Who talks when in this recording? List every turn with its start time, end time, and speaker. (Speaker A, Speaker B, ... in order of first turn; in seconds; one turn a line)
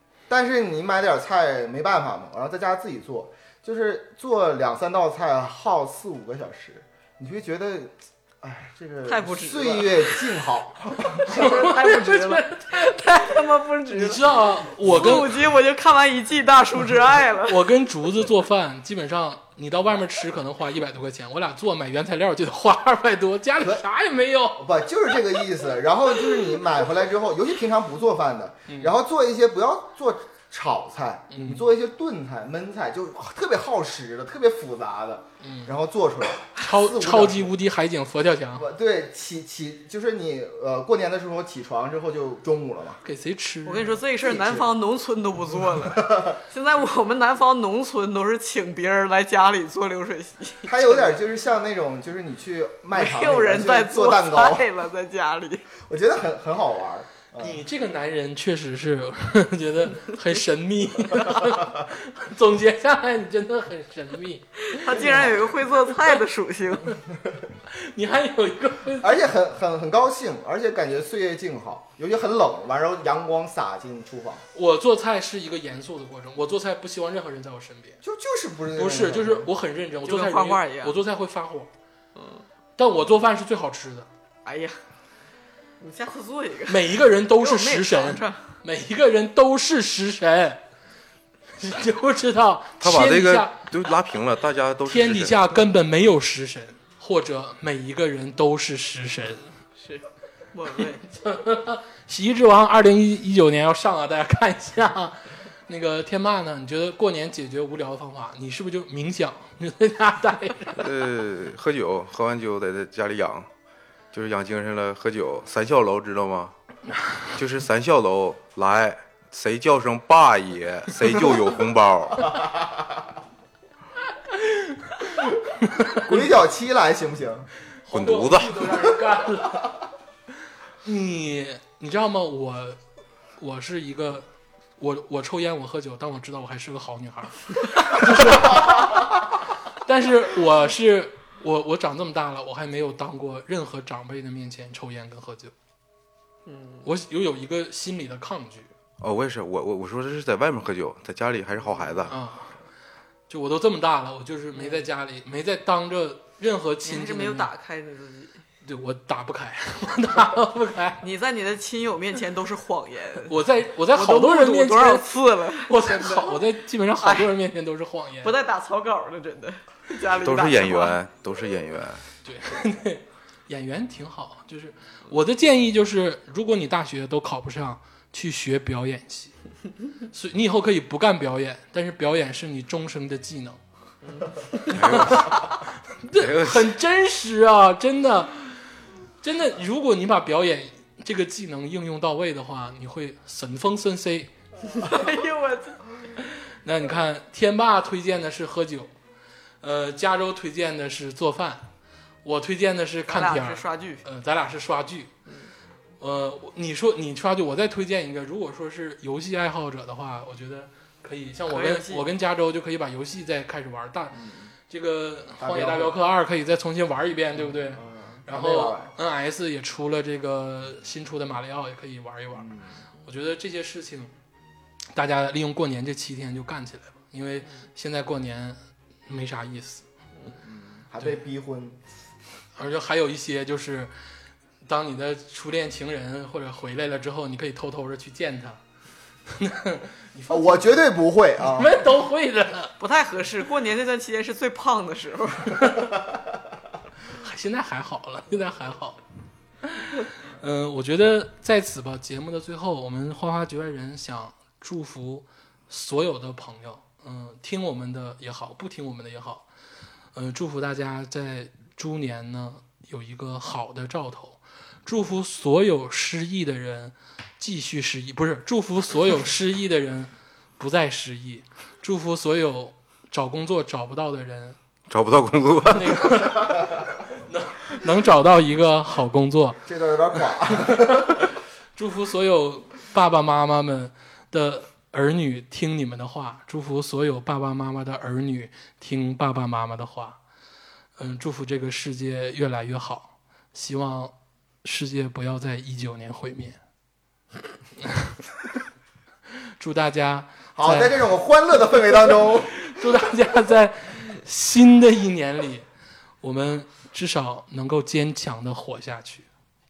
Speaker A: 0.3-11.5
Speaker B: 9.1-10.3
Speaker B: 11.2-17.7
Speaker C: 11.3-12.9
Speaker C: 13.9-15.3
Speaker C: 17.5-24.8
Speaker A: 23.6-23.8
Speaker A: 24.6-37.5
Speaker C: 31.3-31.6
Speaker C: 35.4-35.7
Speaker C: 36.6-38.6
Speaker A: 38.6-43.0
Speaker C: 43.0-44.0
Speaker B: 43.7-51.2
Speaker A: 44.2-44.7
Speaker A: 45.9-46.3
Speaker A: 50.7-54.7
Speaker B: 52.9-55.7
Speaker A: 55.8-57.6
Speaker C: 57.4-64.8
Speaker B: 64.7-67.0
Speaker A: 64.9-65.5
Speaker C: 67.7-69.1
Speaker A: 69.0-74.4
Speaker C: 74.5-78.0
Speaker A: 78.0-79.5
Speaker C: 78.8-81.7
Speaker B: 80.0-81.0
Speaker B: 82.2-82.5
Speaker C: 82.8-84.1
Speaker B: 84.5-84.8
Speaker B: 85.8-88.5
Speaker C: 86.7-90.6
Speaker C: 91.6-93.6
Speaker D: 92.8-95.5
Speaker C: 94.9-99.5
Speaker B: 99.8-101.0
Speaker C: 101.1-110.8
Speaker D: 110.8-113.5
Speaker D: 114.1-116.5
Speaker D: 117.3-122.3
Speaker A: 122.3-122.9
Speaker C: 124.3-125.1
Speaker C: 125.6-126.2
Speaker A: 125.9-127.5
Speaker C: 127.8-129.7
Speaker D: 127.9-128.7
Speaker C: 130.8-132.8
Speaker C: 133.4-134.2
Speaker C: 134.8-139.2
Speaker C: 139.7-145.5
Speaker B: 146.5-146.8
Speaker C: 146.8-148.7
Speaker D: 149.0-152.2
Speaker C: 152.1-152.6
Speaker C: 153.3-157.5
Speaker B: 154.6-154.8
Speaker B: 156.8-158.4
Speaker C: 158.6-161.0
Speaker B: 161.0-163.4
Speaker C: 163.3-168.3
Speaker B: 163.9-166.5
Speaker B: 167.0-167.3
Speaker B: 168.2-171.0
Speaker D: 170.2-172.0
Speaker C: 172.2-179.3
Speaker C: 180.1-183.6
Speaker B: 184.0-185.2
Speaker D: 184.7-185.6
Speaker C: 184.7-188.4
Speaker D: 186.2-186.8
Speaker C: 189.2-194.3
Speaker B: 194.7-195.8
Speaker C: 196.6-198.9
Speaker C: 199.6-201.7
Speaker C: 202.2-205.1
Speaker B: 203.1-204.1
Speaker B: 205.3-205.5
Speaker C: 206.0-222.5
Speaker B: 211.5-212.1
Speaker A: 214.1-214.5
Speaker A: 215.4-216.0
Speaker A: 217.4-218.9
Speaker A: 222.4-222.8
Speaker C: 223.0-224.1
Speaker C: 224.9-229.8
Speaker A: 230.4-231.9
Speaker C: 232.6-233.9
Speaker C: 234.7-238.6
Speaker C: 239.3-240.8
Speaker A: 240.3-241.8
Speaker C: 241.4-242.7
Speaker B: 242.8-245.8
Speaker C: 245.5-245.9
Speaker C: 247.1-249.0
Speaker C: 249.7-259.5
Speaker C: 260.1-274.6
Speaker D: 274.9-276.5
Speaker C: 275.7-279.6
Speaker A: 279.6-281.2
Speaker C: 280.6-290.2
Speaker C: 291.0-296.6
Speaker C: 297.8-298.2
Speaker C: 299.6-301.0
Speaker A: 300.6-302.7
Speaker C: 301.9-305.6
Speaker C: 306.2-309.3